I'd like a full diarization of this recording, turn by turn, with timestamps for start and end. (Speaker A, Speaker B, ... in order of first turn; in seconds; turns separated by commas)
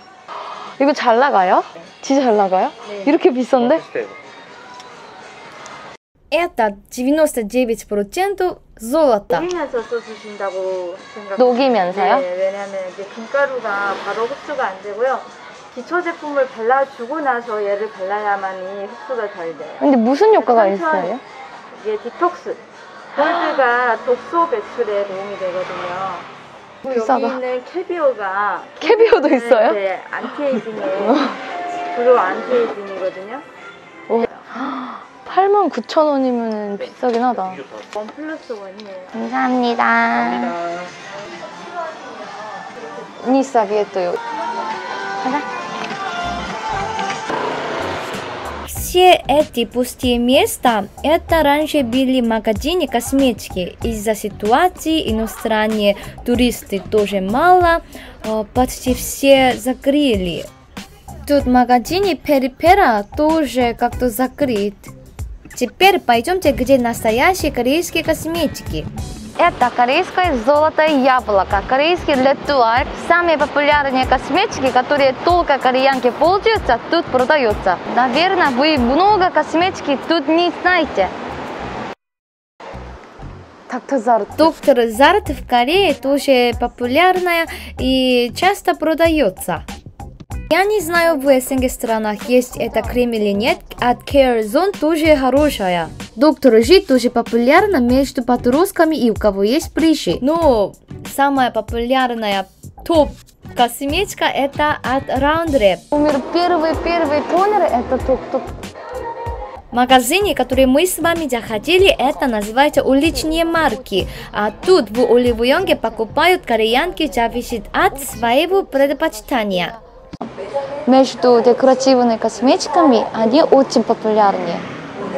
Speaker A: 0.8-4.0, Speaker B: 6.3-9.5, Speaker C: 9.3-19.8, Speaker A: 11.4-12.2, Speaker A: 19.8-21.2, Speaker C: 20.4-21.1, Speaker C: 21.7-22.6, Speaker C: 23.1-26.3, Speaker A: 26.8-27.4, Speaker C: 26.9-31.3, Speaker A: 28.8-29.8, Speaker A: 30.9-31.4, Speaker C: 31.9-33.5, Speaker A: 34.1-37.6, Speaker C: 38.0-39.2, Speaker A: 39.1-40.6, Speaker A: 43.2-44.2, Speaker A: 45.2-45.5, Speaker B: 48.7-60.5, Speaker B: 61.3-64.9, Speaker B: 65.5-68.9, Speaker A: 69.4-81.1, Speaker A: 83.7-84.6, Speaker B: 84.4-89.7, Speaker B: 90.5-105.8, Speaker A: 105.9-108.5, Speaker B: 109.7-119.8, Speaker A: 118.0-119.8, Speaker A: 120.9-124.7